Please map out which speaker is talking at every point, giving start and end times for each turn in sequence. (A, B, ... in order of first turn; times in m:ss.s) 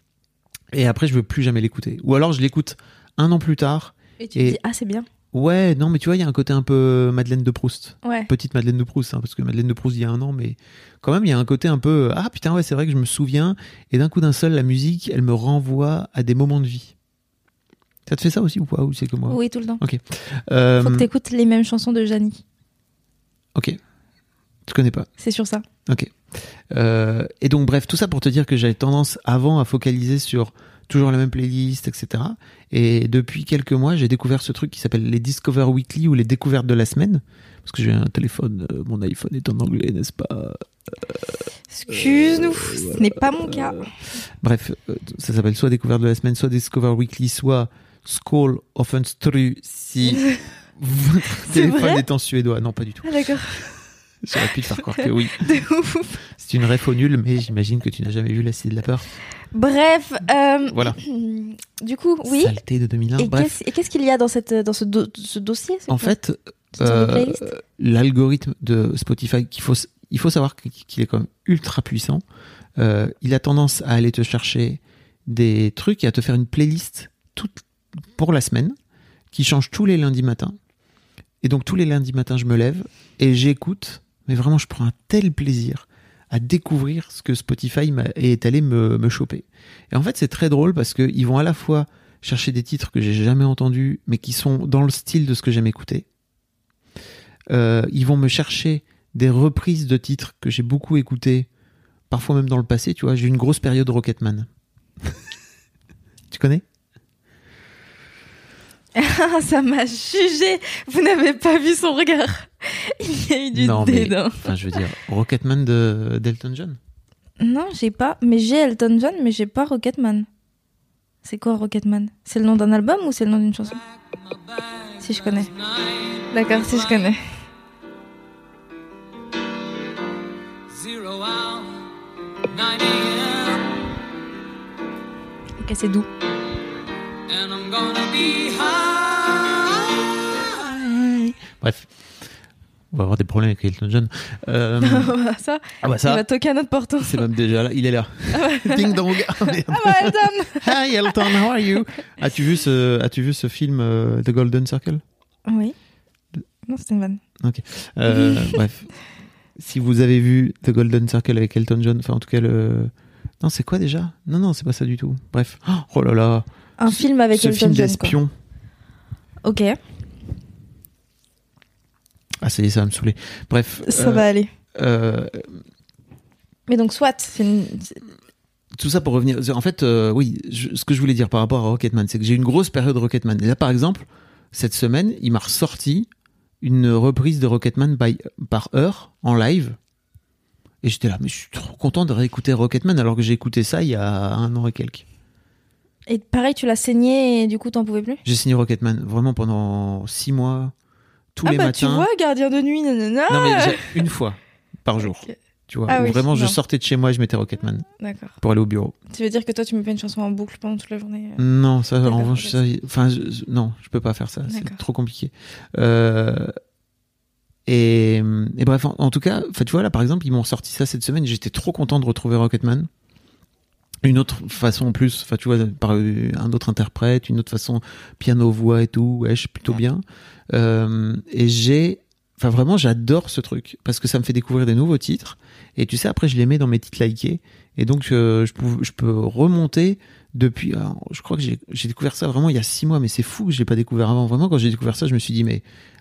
0:00.7-0:04.6 A
0:04.2-0:05.1 B
0:05.3-0:16.9 A
0:08.0-0:08.3 B
0:18.1-0:21.1 A
0:19.3-0:19.8 B
0:20.8-0:22.4 B
0:24.7-0:25.1 A
0:25.2-0:25.6 B
0:25.9-0:26.2 A
0:26.7-0:41.3 A
0:41.7-0:43.9 B
0:41.9-0:43.9 A
0:44.4-0:50.3 A
0:50.0-0:50.4 B
0:50.8-0:53.1 A
0:51.4-0:52.0 B
0:53.0-0:53.8 B
0:54.2-0:55.5 A
0:54.6-0:56.2 B
0:56.4-0:59.1 A
0:59.5-1:02.6 B
1:00.7-1:01.0 A
1:02.3-1:03.6 A
1:03.2-1:06.2 B
1:05.9-1:12.2 A
1:06.8-1:07.5 B
1:12.8-1:18.8 A
1:19.3-1:20.6 A
1:21.4-1:36.1 A
1:37.5-1:41.5 A
1:42.1-1:44.5 A
1:46.3-1:46.6 A
1:49.0-1:54.8 B
1:53.5-1:56.8 A
1:57.4-2:00.3 B
2:01.2-2:03.8 B
2:05.0-2:05.6 B
2:06.3-2:07.2 B
2:10.8-2:11.7 C
2:12.6-2:13.6 C
2:15.6-2:16.1 B
2:17.3-2:19.9 C
2:20.4-2:21.9 A
2:22.9-2:25.1 A
2:24.8-2:27.3 B
2:25.8-2:26.2 A
2:27.0-2:35.0 A
2:28.4-2:31.4 B
2:35.5-2:35.8 B
2:36.7-2:37.2 B
2:37.4-2:38.9 A
2:38.1-2:38.6 B
2:39.6-2:48.3 A
2:46.8-2:48.2 B
2:49.4-2:49.8 B
2:52.4-2:55.5 A
2:53.8-2:54.5 B
2:56.7-2:58.0 B
2:58.8-3:06.1 A
3:06.6-3:09.8 A
3:10.8-3:15.0 A
3:16.1-3:18.2 B
3:18.2-3:20.7 A
3:21.4-3:22.1 A
3:21.4-3:24.0 B
3:23.3-3:27.9 A
3:25.0-3:25.3 B
3:25.9-3:26.6 B
3:28.0-3:28.3 B
3:28.4-3:28.9 A
3:29.1-3:31.5 B
3:31.4-3:36.5 A
3:32.0-3:32.6 B
3:34.5-3:34.8 B
3:37.7-3:42.9 A
3:44.0-4:05.6 A